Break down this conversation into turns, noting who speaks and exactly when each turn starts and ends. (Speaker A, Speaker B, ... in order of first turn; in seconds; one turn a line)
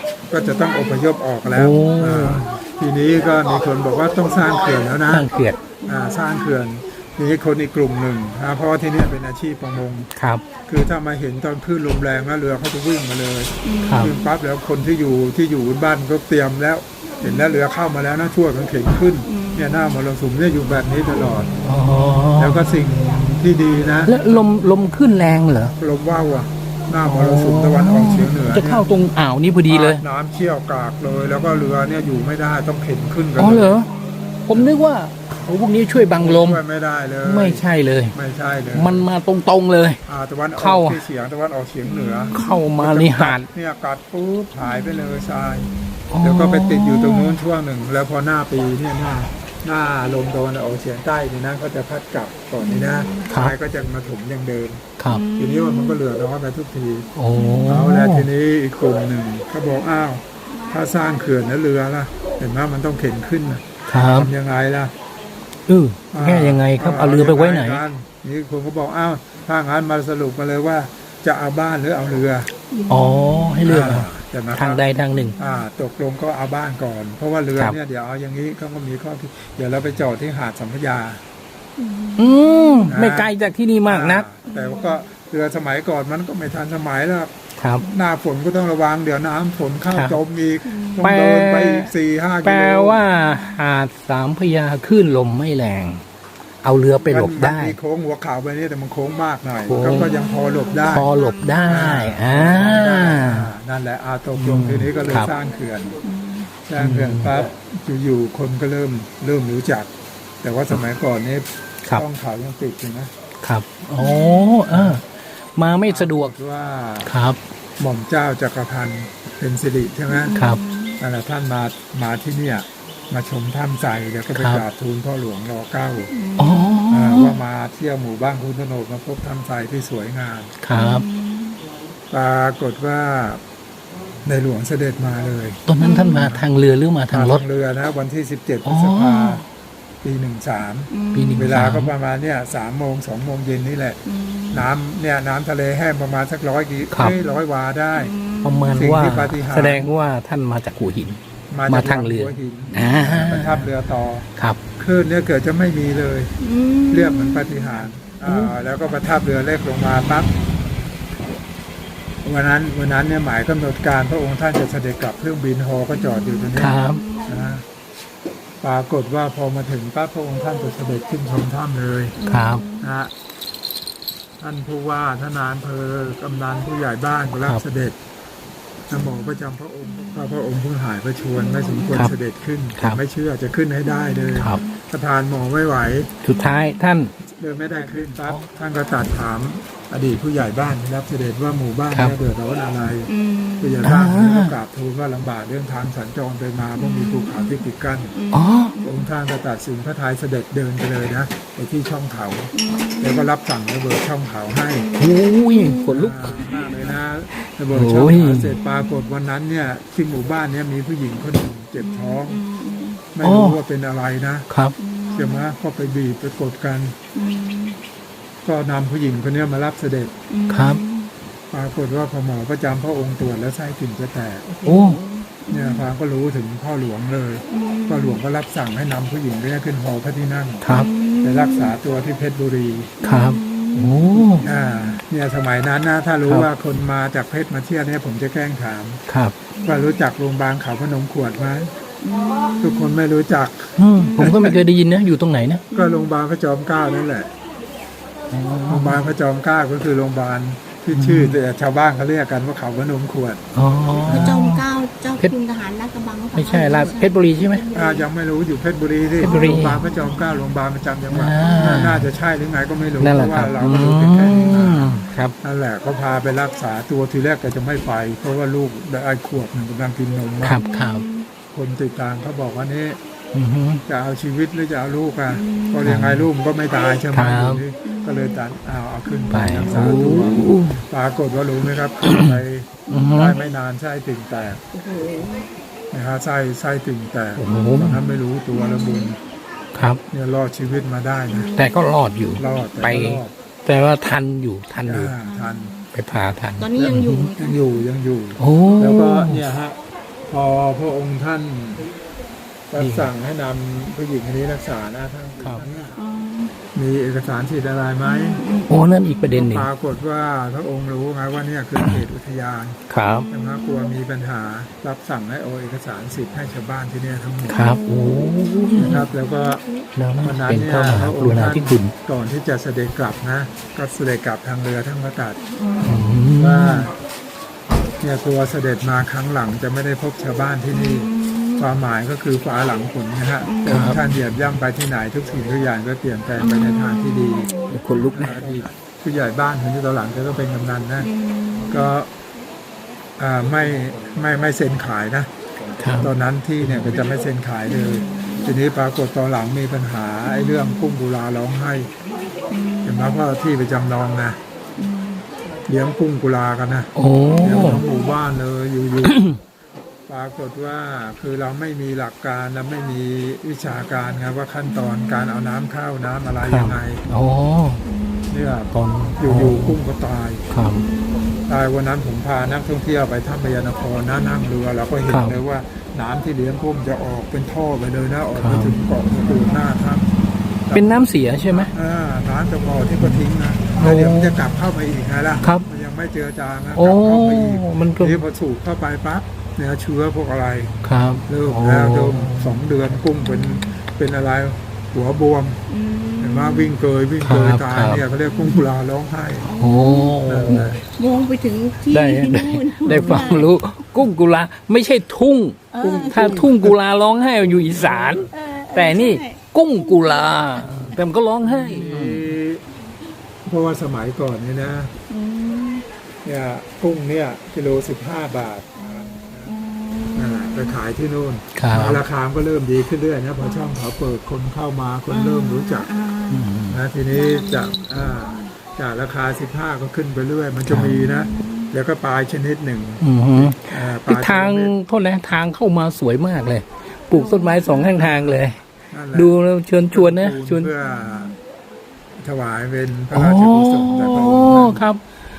Speaker A: 0.3-5.3
Speaker B: 1.5-2.5
Speaker B: 5.1-5.6
Speaker A: 5.8-10.1
Speaker B: 10.2-10.4
Speaker A: 10.7-21.5
Speaker C: 13.6-14.2
Speaker B: 13.8-14.1
Speaker C: 19.3-19.8
Speaker B: 21.6-22.7
Speaker A: 22.4-24.1
Speaker B: 24.1-25.8
Speaker A: 25.8-28.9
Speaker B: 27.0-30.0
Speaker A: 29.7-33.8
Speaker B: 33.4-33.9
Speaker B: 34.5-36.6
Speaker A: 36.1-39.1
Speaker B: 37.2-38.1
Speaker B: 38.7-40.0
Speaker A: 40.1-45.7
Speaker B: 40.6-41.0
Speaker C: 42.0-42.6
Speaker B: 42.3-43.5
Speaker B: 46.1-47.4
Speaker A: 46.2-57.1
Speaker C: 52.6-53.3
Speaker B: 55.0-55.2
Speaker C: 55.1-56.0
Speaker B: 57.2-58.3
Speaker C: 57.4-57.7
Speaker A: 57.7-64.9
Speaker B: 63.9-64.3
Speaker B: 65.7-67.8
Speaker A: 66.1-72.5
Speaker C: 72.7-73.4
Speaker B: 72.9-75.4
Speaker A: 73.6-74.8
Speaker A: 75.4-81.2
Speaker C: 81.8-82.8
Speaker B: 82.2-84.3
Speaker A: 82.9-83.3
Speaker A: 83.9-93.0
Speaker C: 84.5-84.8
Speaker B: 87.6-87.9
Speaker B: 89.9-90.2
Speaker C: 90.7-91.1
Speaker B: 91.0-91.9
Speaker B: 92.4-96.0
Speaker B: 96.6-97.8
Speaker A: 97.0-101.1
Speaker B: 99.7-100.2
Speaker C: 100.1-101.9
Speaker B: 100.9-103.5
Speaker A: 101.7-106.0
Speaker B: 104.3-105.3
Speaker C: 106.0-106.5
Speaker A: 106.7-109.9
Speaker B: 106.8-107.3
Speaker A: 110.4-113.1
Speaker B: 113.4-116.3
Speaker C: 114.0-114.6
Speaker A: 114.7-115.0
Speaker A: 115.9-117.1
Speaker B: 117.0-117.4
Speaker A: 117.8-120.3
Speaker C: 120.2-121.0
Speaker B: 120.3-120.6
Speaker A: 121.0-126.1
Speaker B: 124.4-124.6
Speaker C: 126.1-126.8
Speaker B: 126.4-127.3
Speaker A: 126.9-130.5
Speaker B: 130.6-131.1
Speaker C: 130.8-131.6
Speaker A: 132.1-133.4
Speaker A: 134.3-135.6
Speaker B: 135.7-137.4
Speaker C: 135.8-136.3
Speaker A: 136.1-136.4
Speaker A: 137.1-139.4
Speaker B: 138.6-139.4
Speaker A: 140.0-144.0
Speaker C: 140.9-141.5
Speaker B: 141.1-141.9
Speaker C: 144.1-144.7
Speaker A: 144.5-148.1
Speaker B: 146.9-147.2
Speaker C: 147.1-147.4
Speaker C: 148.0-148.8
Speaker B: 148.4-153.7
Speaker A: 148.7-149.9
Speaker A: 151.5-154.3
Speaker A: 154.8-156.3
Speaker C: 156.4-157.5
Speaker A: 156.9-160.3
Speaker B: 158.2-158.5
Speaker A: 162.2-167.6
Speaker C: 166.6-167.5
Speaker B: 166.6-167.0
Speaker A: 168.6-172.2
Speaker C: 172.2-172.9
Speaker B: 172.3-172.7
Speaker A: 172.8-173.1
Speaker A: 174.4-178.0
Speaker A: 178.9-186.1
Speaker C: 184.2-184.6
Speaker B: 184.4-184.6
Speaker B: 186.2-187.1
Speaker A: 187.4-198.1
Speaker B: 191.9-192.2
Speaker C: 193.1-193.9
Speaker B: 193.8-194.5
Speaker C: 196.9-197.5
Speaker C: 198.2-198.9
Speaker B: 198.3-198.8
Speaker A: 198.8-204.8
Speaker C: 202.6-203.3
Speaker C: 204.8-205.9
Speaker B: 205.0-206.5
Speaker A: 205.9-212.4
Speaker B: 207.7-208.5
Speaker C: 211.8-213.0
Speaker A: 213.1-214.5
Speaker B: 213.2-213.6
Speaker B: 214.5-214.8
Speaker C: 214.8-215.4
Speaker A: 215.1-217.0
Speaker C: 217.2-217.8
Speaker A: 218.4-220.1
Speaker C: 220.3-221.1
Speaker B: 220.5-220.8
Speaker A: 221.5-224.7
Speaker B: 224.7-225.0
Speaker C: 224.7-225.8
Speaker A: 225.5-230.7
Speaker C: 227.5-228.2
Speaker B: 230.6-230.9
Speaker C: 230.7-231.7
Speaker A: 231.2-232.9
Speaker C: 233.0-235.0
Speaker B: 233.0-234.5
Speaker A: 234.3-239.0
Speaker B: 239.1-239.3
Speaker C: 239.6-239.9
Speaker A: 239.7-241.7
Speaker C: 242.0-242.9
Speaker A: 242.6-244.6
Speaker B: 243.8-245.7
Speaker C: 244.2-244.5
Speaker C: 245.7-246.1
Speaker A: 245.7-247.3
Speaker B: 248.3-249.0
Speaker A: 248.7-253.4
Speaker B: 250.9-251.4
Speaker B: 253.5-254.6
Speaker A: 254.0-254.3
Speaker C: 254.1-258.0
Speaker B: 256.4-257.6
Speaker A: 257.7-270.6
Speaker B: 259.2-259.8
Speaker C: 259.2-259.7
Speaker B: 261.1-262.1
Speaker B: 263.0-265.4
Speaker B: 270.4-271.1
Speaker C: 270.6-271.3
Speaker A: 271.5-273.0
Speaker B: 273.3-273.8
Speaker A: 273.9-284.6
Speaker C: 275.3-275.8
Speaker B: 275.9-276.3
Speaker B: 277.1-277.6
Speaker C: 277.9-278.4
Speaker B: 279.3-280.8
Speaker B: 282.0-282.4
Speaker B: 282.9-283.4
Speaker C: 282.9-283.2
Speaker C: 284.7-285.5
Speaker A: 285.9-289.2
Speaker B: 287.4-288.0
Speaker C: 288.6-289.1
Speaker B: 289.8-290.0
Speaker A: 290.1-291.5
Speaker C: 291.3-291.6
Speaker B: 291.5-295.1
Speaker A: 292.4-293.3
Speaker A: 294.9-295.7
Speaker C: 295.2-295.9
Speaker B: 295.9-297.3
Speaker C: 296.6-297.6
Speaker A: 296.8-299.8
Speaker B: 298.4-299.4
Speaker A: 300.3-301.9
Speaker A: 302.7-306.0
Speaker B: 302.8-303.1
Speaker B: 305.4-305.6
Speaker C: 306.0-306.6
Speaker A: 306.8-308.4
Speaker C: 308.1-308.7
Speaker B: 308.7-309.7
Speaker A: 309.3-317.6
Speaker B: 312.9-313.3
Speaker B: 317.5-319.1
Speaker C: 317.6-319.0
Speaker A: 318.8-319.6
Speaker B: 320.0-321.9
Speaker A: 320.2-325.4
Speaker C: 325.6-326.1
Speaker B: 325.8-326.9
Speaker A: 326.4-326.9
Speaker A: 328.0-337.5
Speaker C: 330.7-331.6
Speaker C: 333.5-334.0
Speaker B: 333.7-334.0
Speaker C: 336.4-337.8
Speaker B: 337.7-338.6
Speaker A: 338.1-341.1
Speaker C: 341.0-341.9
Speaker A: 341.7-342.1
Speaker A: 343.2-345.3
Speaker B: 345.8-346.1
Speaker A: 345.9-351.9
Speaker C: 347.7-348.5
Speaker C: 350.3-350.8
Speaker C: 352.5-353.2
Speaker A: 352.8-354.4
Speaker C: 354.8-355.2
Speaker A: 355.7-356.9
Speaker B: 356.9-357.8
Speaker C: 357.4-358.0
Speaker A: 357.4-359.2
Speaker B: 359.0-359.4
Speaker A: 360.1-367.0
Speaker B: 366.4-367.8
Speaker C: 367.9-368.3
Speaker A: 368.3-370.4
Speaker B: 368.7-369.8
Speaker B: 370.5-370.9
Speaker C: 370.7-371.4
Speaker A: 371.5-380.0
Speaker B: 375.1-375.4
Speaker B: 378.4-378.8
Speaker B: 380.7-381.7
Speaker A: 381.6-395.6
Speaker B: 383.8-384.4
Speaker B: 386.8-388.2
Speaker B: 390.8-392.6
Speaker C: 393.3-393.8
Speaker C: 395.7-396.7
Speaker A: 396.2-399.5
Speaker B: 397.2-398.0
Speaker C: 399.4-403.5
Speaker B: 399.5-400.7
Speaker A: 400.2-400.8
Speaker B: 401.9-412.4
Speaker A: 402.9-403.5
Speaker C: 405.7-406.4
Speaker A: 405.8-406.8
Speaker A: 407.5-408.3
Speaker C: 408.3-409.4
Speaker C: 410.0-410.3
Speaker A: 410.6-412.6
Speaker A: 413.5-414.9
Speaker C: 415.1-415.9
Speaker A: 416.2-419.6
Speaker C: 418.9-420.7
Speaker A: 420.1-425.9
Speaker B: 421.6-422.0
Speaker C: 425.1-426.5
Speaker B: 426.3-426.8
Speaker A: 426.7-434.7
Speaker C: 427.1-428.5
Speaker B: 430.7-431.0
Speaker C: 431.1-431.7
Speaker B: 433.0-438.6
Speaker C: 437.1-438.1
Speaker A: 438.9-439.3
Speaker B: 439.1-440.7
Speaker A: 439.9-441.3
Speaker C: 441.0-441.3
Speaker A: 442.2-444.8
Speaker B: 443.1-445.0